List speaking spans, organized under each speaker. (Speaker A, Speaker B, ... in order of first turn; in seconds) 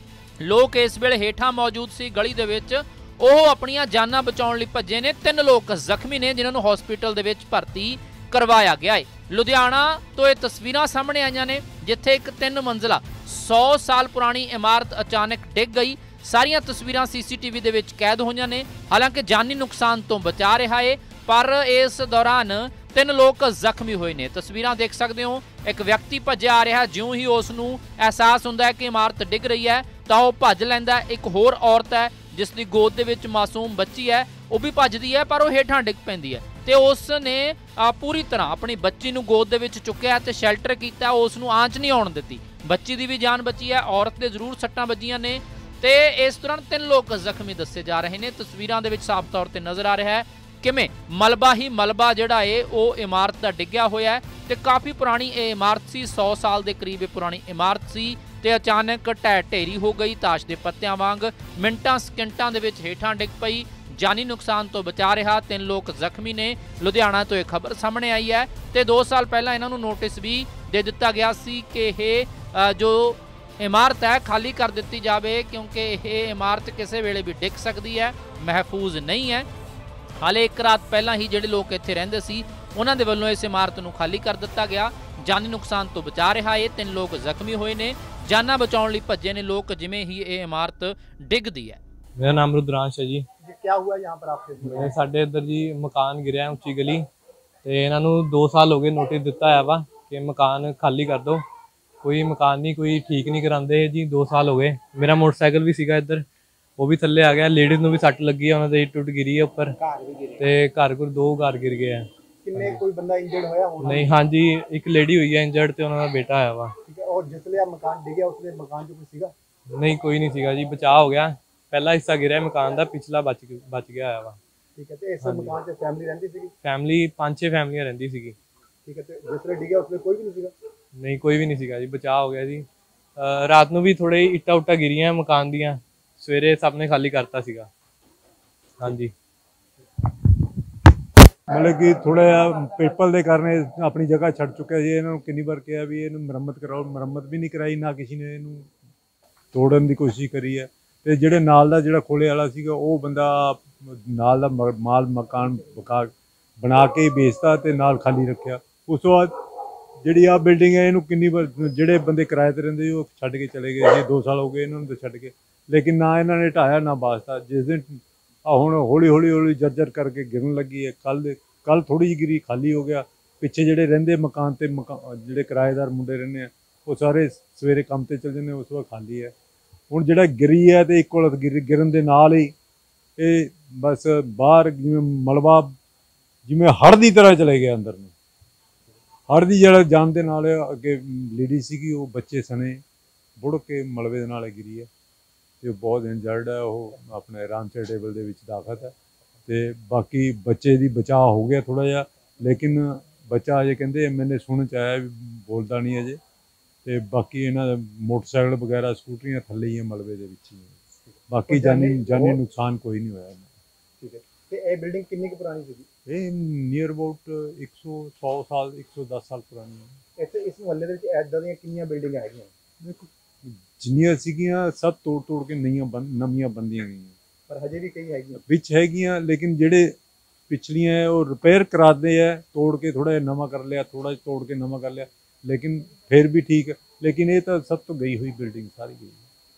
Speaker A: 0.4-79.5, 80.2-91.8
Speaker B: 92.2-93.2, 94.6-97.0, 97.6-101.4, 102.0-106.2, 106.8-109.8, 110.4-112.0, 113.8-116.7, 119.7-124.4, 125.2-125.5, 126.6-128.3, 130.9-132.7, 133.2-137.7, 138.8-139.1
Speaker C: 93.4-95.0, 109.8-110.4, 112.4-114.2, 116.8-119.3, 124.8-126.5, 128.8-130.5, 211.5-212.4, 214.0-215.9, 220.2-222.5, 227.5-228.4
Speaker D: 141.5-148.7, 149.5-159.3, 160.0-179.3, 179.9-182.5, 183.2-185.8, 186.4-188.1, 189.3-192.8, 193.4-194.9, 195.6-198.9, 199.5-206.2, 206.8-210.8, 211.3-213.5, 216.1-219.9, 222.8-227.1, 228.3-229.9, 230.5-239.2